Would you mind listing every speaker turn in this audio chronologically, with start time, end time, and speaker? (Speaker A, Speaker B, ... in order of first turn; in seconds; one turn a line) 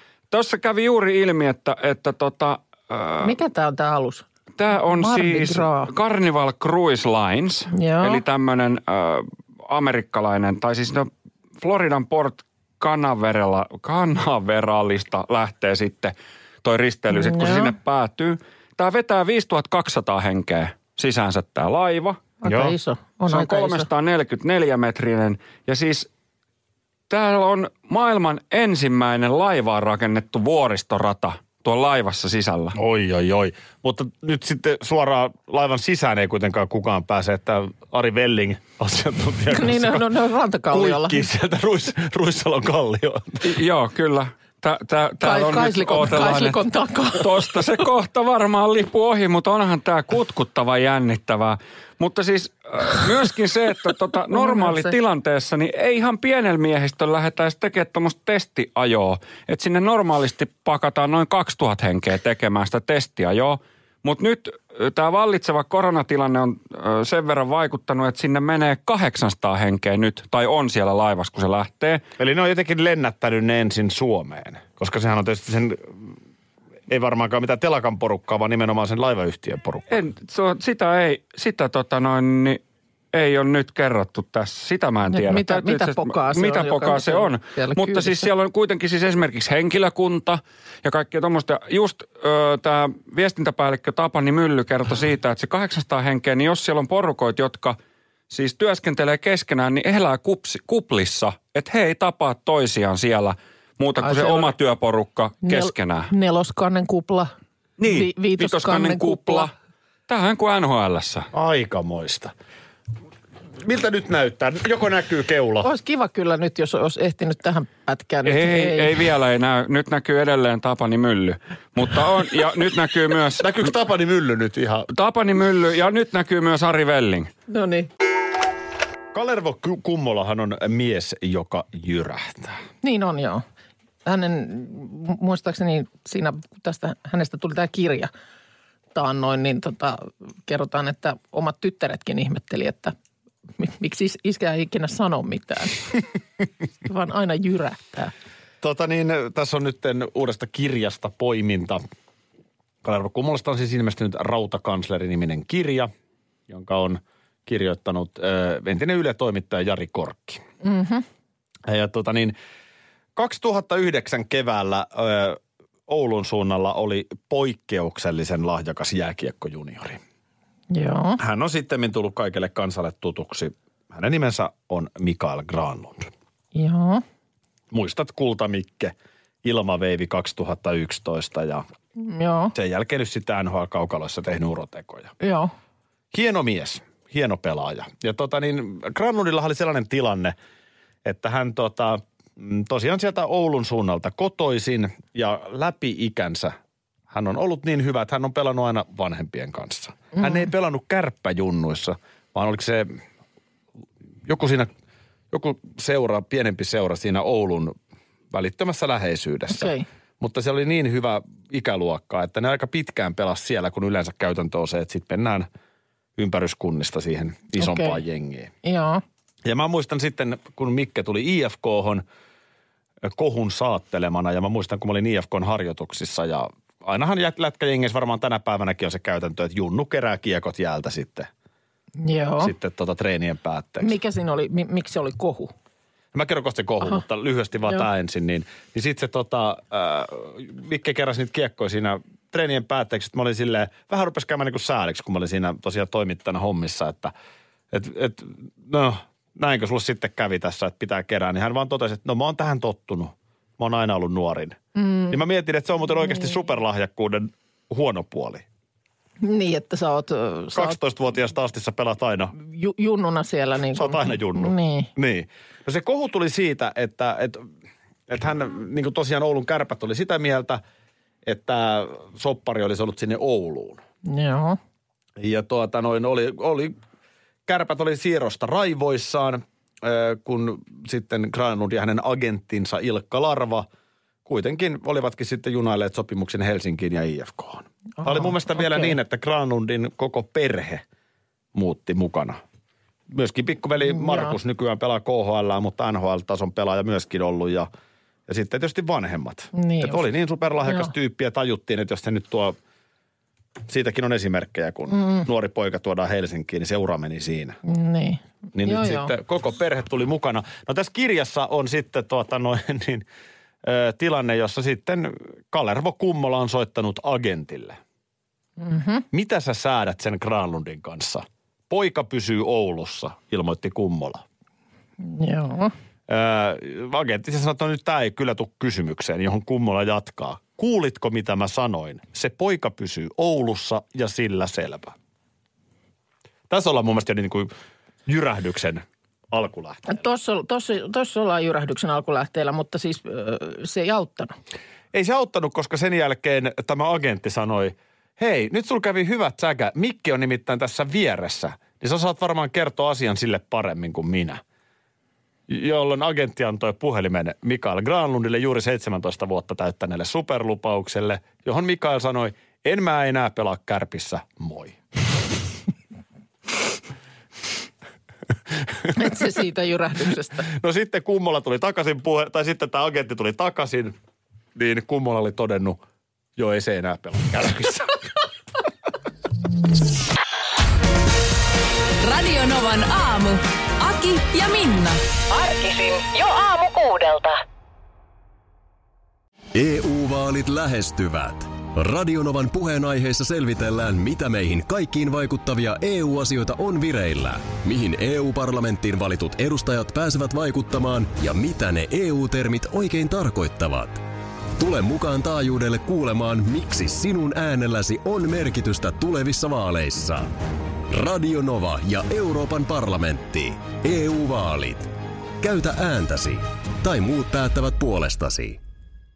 Speaker A: 0.3-3.4
Speaker B: 3.2-5.9
Speaker A: 4.6-22.2
Speaker B: 7.7-8.2
Speaker B: 17.1-17.7
Speaker B: 22.4-23.9
Speaker C: 22.5-22.8
Speaker A: 23.3-26.1
Speaker A: 27.1-32.8
Speaker C: 32.8-40.1
Speaker B: 39.5-41.2
Speaker C: 40.7-43.5
Speaker A: 43.4-46.6
Speaker B: 45.2-47.6
Speaker A: 47.1-72.0
Speaker B: 54.3-54.9
Speaker C: 72.2-76.1
Speaker C: 76.9-80.0
Speaker A: 79.9-82.6
Speaker A: 83.1-97.8
Speaker B: 85.1-88.3
Speaker A: 98.3-106.1
Speaker B: 104.0-104.5
Speaker B: 105.4-107.3
Speaker A: 107.8-109.5
Speaker B: 107.9-109.5
Speaker A: 110.1-111.3
Speaker C: 111.3-112.3
Speaker C: 113.6-115.7
Speaker B: 115.6-118.9
Speaker A: 118.2-123.6
Speaker C: 123.4-124.9
Speaker A: 124.9-127.3
Speaker B: 127.5-127.9
Speaker C: 129.1-132.6
Speaker B: 132.8-133.4
Speaker B: 134.1-138.1
Speaker B: 138.9-142.9
Speaker B: 143.6-145.8
Speaker B: 146.8-148.1
Speaker C: 148.6-151.8
Speaker C: 152.8-155.9
Speaker C: 156.5-160.4
Speaker B: 160.6-161.1
Speaker C: 161.7-162.3
Speaker C: 163.2-170.0
Speaker B: 170.7-171.2
Speaker C: 171.2-176.1
Speaker B: 176.6-177.0
Speaker C: 177.7-181.7
Speaker B: 182.0-182.5
Speaker C: 182.6-185.1
Speaker B: 185.2-185.5
Speaker C: 186.1-190.3
Speaker C: 191.0-196.6
Speaker C: 197.1-203.0
Speaker B: 200.1-200.5
Speaker C: 204.2-204.7
Speaker C: 205.3-207.8
Speaker C: 208.3-215.5
Speaker B: 209.5-209.8
Speaker C: 216.2-218.5
Speaker B: 217.6-218.0
Speaker B: 218.6-219.0
Speaker C: 219.4-222.0
Speaker C: 223.0-231.3
Speaker B: 232.0-232.5
Speaker C: 232.4-233.9
Speaker B: 233.8-235.5
Speaker C: 236.1-247.1
Speaker C: 247.7-258.5
Speaker B: 254.8-255.2
Speaker B: 259.2-260.8
Speaker C: 260.5-262.3
Speaker B: 262.4-264.9
Speaker C: 263.7-267.5
Speaker C: 268.1-270.6
Speaker C: 271.2-273.8
Speaker B: 274.1-274.6
Speaker C: 275.2-276.8
Speaker C: 277.5-283.7
Speaker C: 284.2-290.8
Speaker B: 288.0-289.0
Speaker C: 291.5-292.4
Speaker C: 293.1-297.7
Speaker B: 293.9-294.4
Speaker C: 298.3-302.6
Speaker B: 299.6-300.1
Speaker C: 303.7-307.6
Speaker B: 305.0-305.2
Speaker B: 307.7-309.1
Speaker C: 308.5-313.1
Speaker C: 313.6-317.8
Speaker B: 318.6-319.1
Speaker C: 319.1-324.2
Speaker B: 325.0-325.7
Speaker C: 326.1-334.9
Speaker C: 336.5-337.5
Speaker C: 338.1-340.0
Speaker B: 339.9-344.4
Speaker C: 344.9-354.4
Speaker C: 355.5-364.8
Speaker C: 368.6-369.1
Speaker B: 368.9-370.5
Speaker C: 370.5-373.9
Speaker C: 374.6-375.8
Speaker C: 376.4-378.0
Speaker D: 382.0-385.0
Speaker E: 385.3-387.4
Speaker F: 389.5-404.0
Speaker F: 404.6-410.3
Speaker F: 410.9-418.6